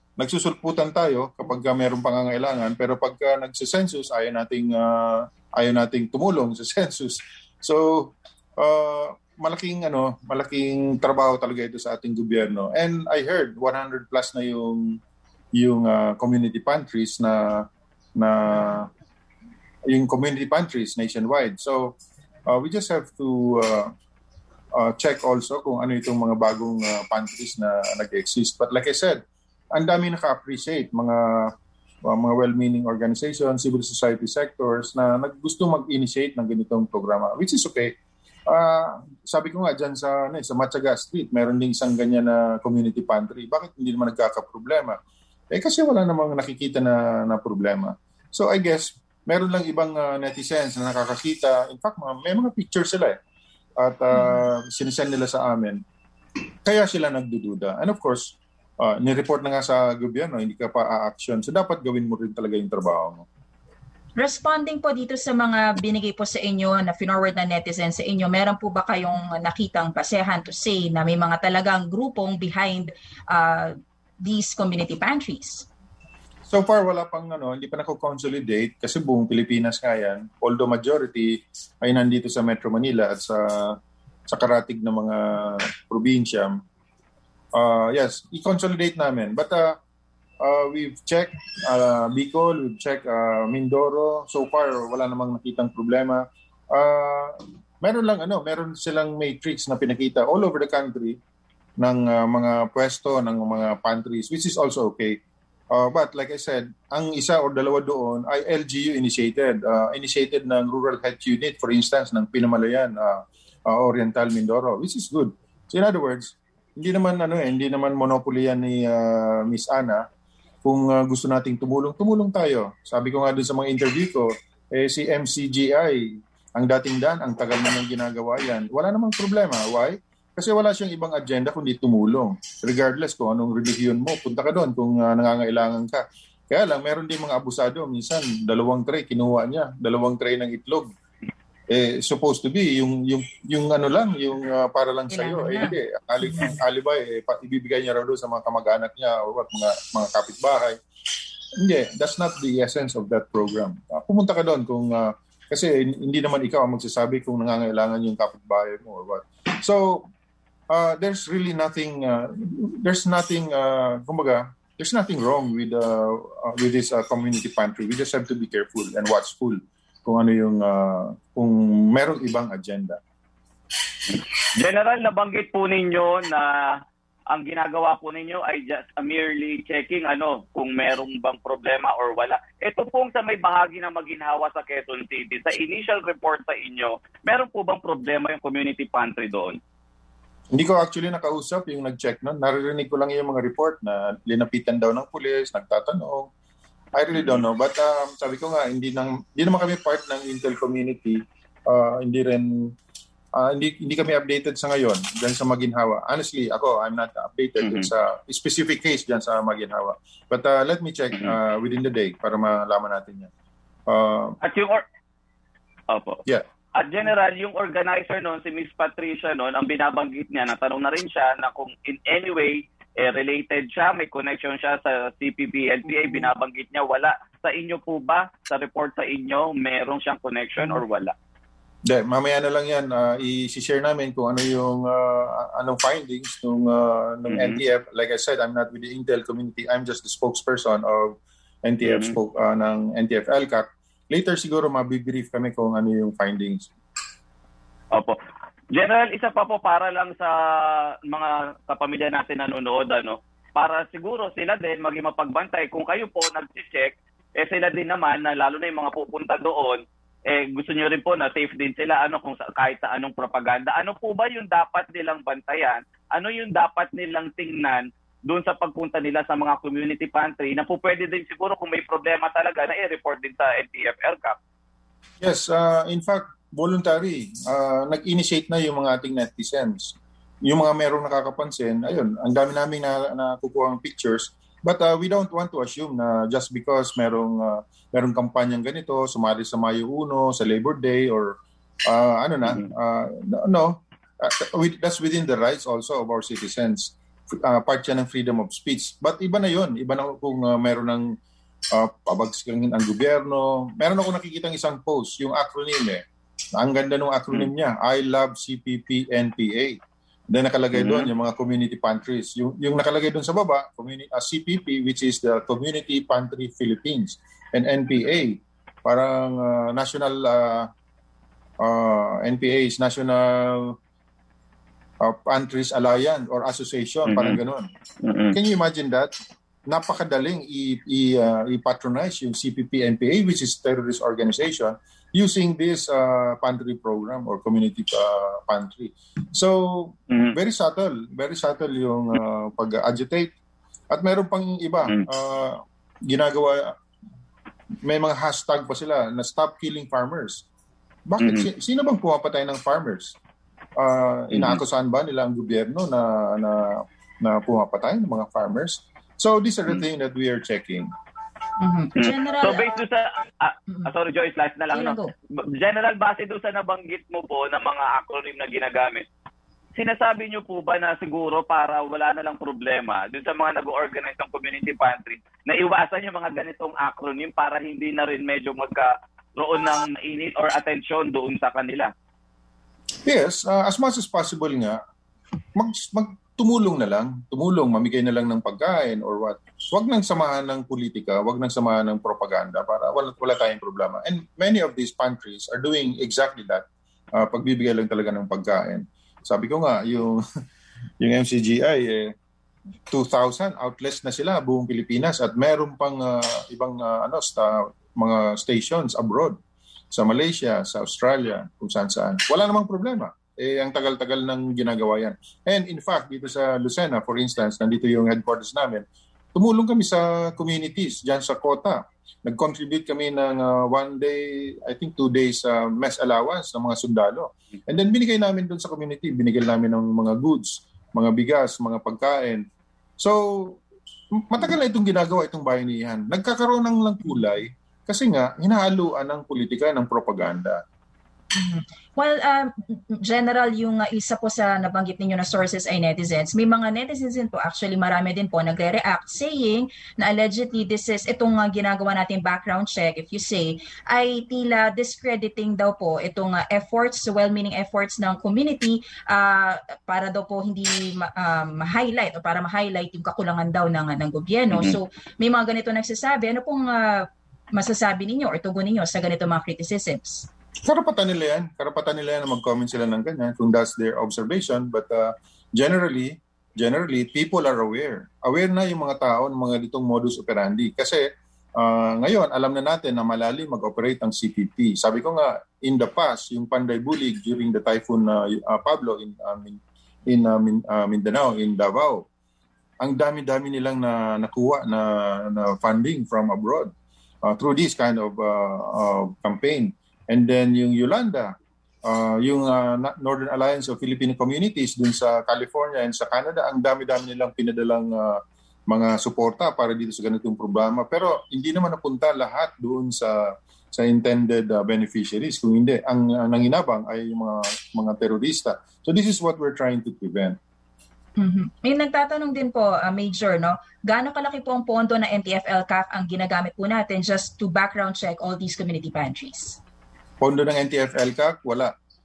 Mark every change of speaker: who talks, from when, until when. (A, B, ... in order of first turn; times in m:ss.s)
0:00.2-0:15.0 A
0:15.6-0:18.9 A
0:19.9-0:22.0 A
0:22.5-0:23.9 A
0:24.8-0:29.2 A
0:29.7-0:31.5 A
0:32.1-0:37.9 A
0:38.5-0:45.0 A
0:45.5-0:53.2 A
0:53.8-0:55.8 A
0:56.7-1:03.2 A
1:04.2-1:15.7 B
1:16.5-1:23.8 A
1:24.3-1:26.6 A
1:27.5-1:29.8 A
1:30.4-1:41.2 A
1:41.8-1:45.2 A
1:45.7-2:00.0 A
2:00.6-2:20.9 A
2:21.7-2:30.8 A
2:25.1-2:25.8 B
2:26.3-2:26.6 B
2:31.6-2:40.1 A
2:40.7-2:53.0 A
2:54.1-2:56.8 C
2:57.3-3:09.6 C
3:10.5-3:16.3 A
3:17.0-3:22.7 A
3:17.2-3:17.4 C
3:23.4-3:33.3 A
3:27.6-3:27.9 C
3:33.9-3:34.4 A
3:34.4-3:34.8 C
3:35.9-3:36.2 C
3:36.8-3:51.1 C
3:51.9-4:06.7 A
3:57.3-3:57.6 C
4:01.8-4:02.2 C
4:08.7-4:34.4 C
4:35.2-4:40.0 A
4:40.5-5:01.1 A
5:01.7-5:06.0 A
5:06.6-5:09.8 A
5:10.3-5:20.7 A
5:10.7-5:11.1 C
5:21.6-5:23.8 A
5:25.0-5:27.7 A
5:27.1-5:27.4 C
5:28.0-5:28.4 C
5:28.3-5:29.1 A
5:29.7-5:43.3 A
5:40.1-5:40.4 C
5:43.9-5:46.7 A
5:47.8-5:50.4 A
5:51.1-5:53.2 A
5:51.2-5:51.5 C
5:53.8-6:00.9 A
5:54.3-5:54.6 C
6:01.6-6:02.7 B
6:02.0-6:09.0 C
6:04.7-6:05.1 B
6:09.8-6:21.9 C
6:23.1-6:24.8 A
6:25.6-6:36.6 A
6:37.2-6:40.2 A
6:41.0-6:42.1 A
6:42.9-6:49.4 A
6:49.9-6:58.8 A
6:59.4-7:12.5 A
7:13.0-7:13.6 A
7:14.2-7:20.6 A
7:21.4-7:50.3 B
7:50.7-8:01.0 A
8:01.6-8:12.0 A
8:12.8-8:16.7 A
8:17.2-8:40.4 A
8:41.2-8:49.6 B
8:50.2-8:51.7 A